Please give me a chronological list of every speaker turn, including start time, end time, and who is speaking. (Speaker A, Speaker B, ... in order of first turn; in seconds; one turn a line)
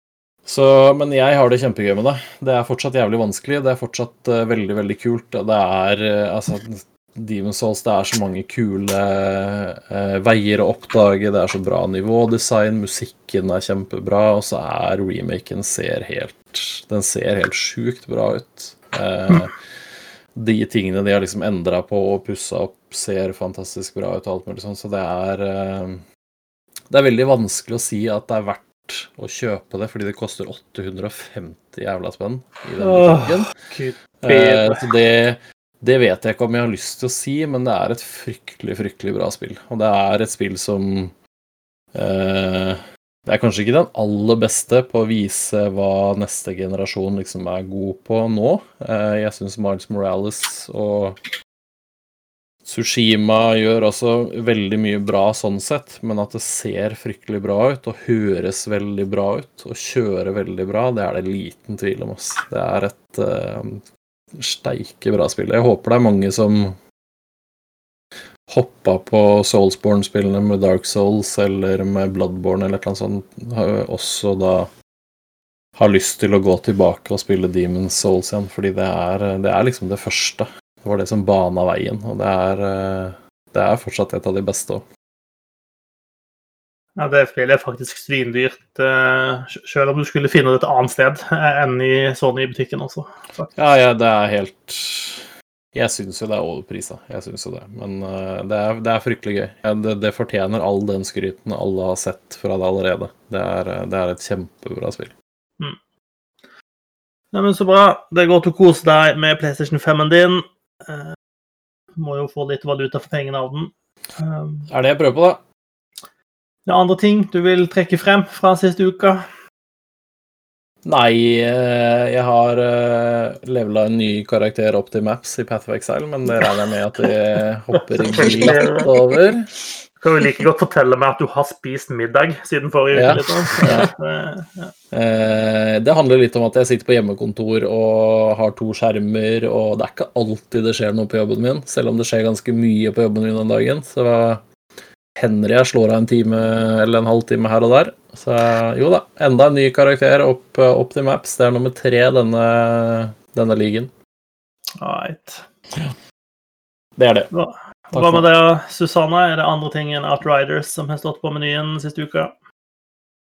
Speaker A: 0.5-26.0
Speaker A: 26.9-33.5
Speaker B: 32.8-34.8
Speaker A: 34.2-41.1
Speaker A: 41.9-51.2
Speaker A: 52.6-66.8
Speaker A: 68.5-74.7
Speaker A: 75.8-84.8
Speaker B: 87.0-93.5
Speaker A: 93.5-105.1
Speaker B: 107.3-111.2
Speaker B: 112.0-114.7
Speaker A: 114.7-115.4
Speaker B: 116.7-119.2
Speaker A: 120.8-129.5
Speaker B: 128.0-128.9
Speaker B: 130.0-134.7
Speaker A: 132.9-133.9
Speaker A: 134.9-144.4
Speaker A: 145.1-153.9
Speaker B: 154.8-155.4
Speaker A: 157.0-157.3
Speaker B: 157.3-162.3
Speaker A: 157.9-158.2